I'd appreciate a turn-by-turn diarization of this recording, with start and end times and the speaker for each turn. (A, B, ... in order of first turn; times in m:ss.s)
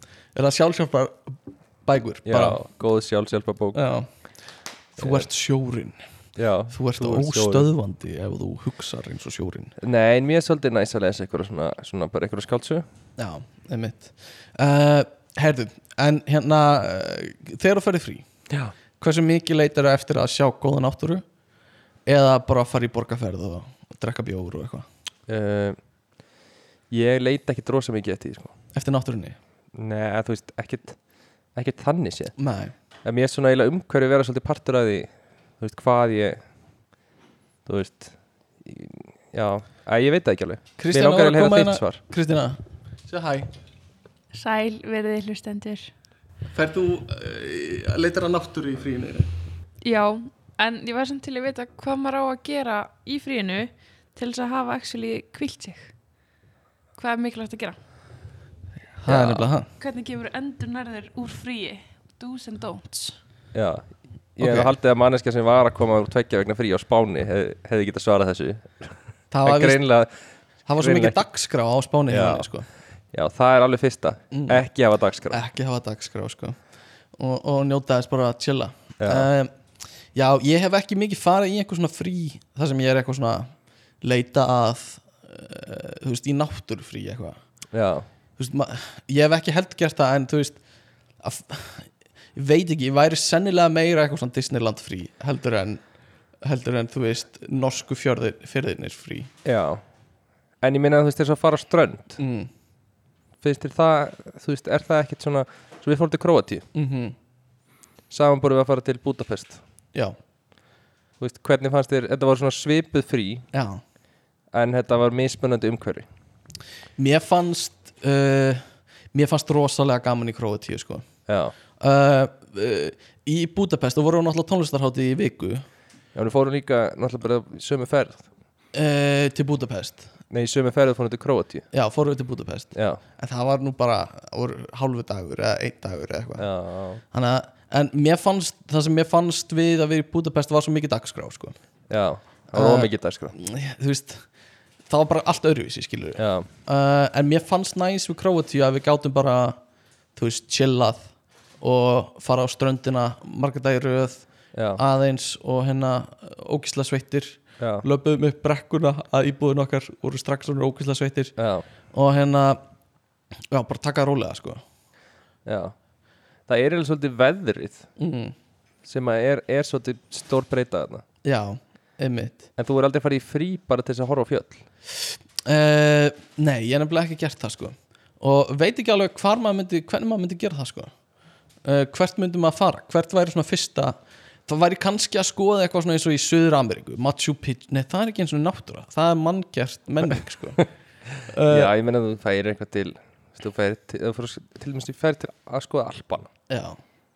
0:00.3-0:02.6 A
0:02.2-0:03.8 B
0:03.7-0:04.1 A
0:05.0-0:06.0 A
0:05.0-0:05.2 B
0:06.4-0:07.7 B
0:06.7-0:09.7 A
0:09.8-0:12.8 B
0:13.2-0:18.2 A
0:18.5-0:18.7 B
0:19.0-0:21.2 A
0:22.1-0:24.9 A
0:25.3-0:25.8 B
0:26.9-0:28.5 B
0:28.7-0:29.4 A
0:29.7-0:31.0 B
0:31.5-0:32.3 B
0:32.4-0:32.7 A
0:33.0-0:35.1 B
0:35.6-0:36.4 B
0:37.6-0:42.0 B
0:40.8-0:43.5 A
0:44.3-0:45.9 C
0:46.5-0:49.3 A
0:49.8-0:55.9 C
0:57.0-0:57.8 C
0:59.0-0:59.7 A
0:59.1-0:59.4 B
0:59.8-1:03.2 C
1:03.5-1:10.1 B
1:04.4-1:04.7 A
1:09.3-1:09.8 A
1:10.7-1:12.7 A
1:10.8-1:11.2 B
1:12.1-1:12.5 B
1:13.1-1:15.4 B
1:14.3-1:14.6 A
1:15.3-1:16.6 A
1:17.2-1:19.5 A
1:19.0-1:19.3 B
1:20.1-1:23.5 A
1:24.0-1:27.4 A
1:27.7-1:28.0 B
1:28.4-1:30.6 A
1:31.2-1:35.8 A
1:36.4-1:39.3 A
1:39.4-1:39.8 B
1:40.6-1:42.2 B
1:42.2-1:42.5 A
1:43.4-1:46.6 B
1:46.7-1:47.1 A
1:48.1-1:49.6 B
1:51.2-1:53.4 B
1:53.5-1:53.8 A
1:54.5-1:56.1 B
1:57.0-2:01.0 A
2:01.3-2:01.5 B
2:01.8-2:05.6 A
2:06.1-2:08.2 B
2:08.7-2:10.1 A
2:10.3-2:11.6 B
2:11.7-2:16.5 A
2:12.7-2:13.0 B
2:16.4-2:17.0 B
2:17.1-2:21.5 A
2:21.9-2:23.3 B
2:22.5-2:24.2 A
2:24.9-2:29.6 A
2:26.2-2:26.5 B
2:30.2-2:31.1 A
2:31.6-2:41.3 A
2:34.5-2:34.8 B
2:37.6-2:37.8 B
2:41.4-2:41.6 B
2:41.9-2:42.6 A
2:43.5-2:44.6 A
2:45.4-2:45.7 B
2:46.5-2:47.9 B
2:48.0-2:48.3 A
2:48.8-2:51.0 B
2:51.2-2:52.5 A
2:52.6-2:54.6 B
2:55.4-3:00.9 A
3:01.6-3:10.6 A
3:11.2-3:11.7 A
3:11.5-3:16.3 B
3:16.5-3:16.8 A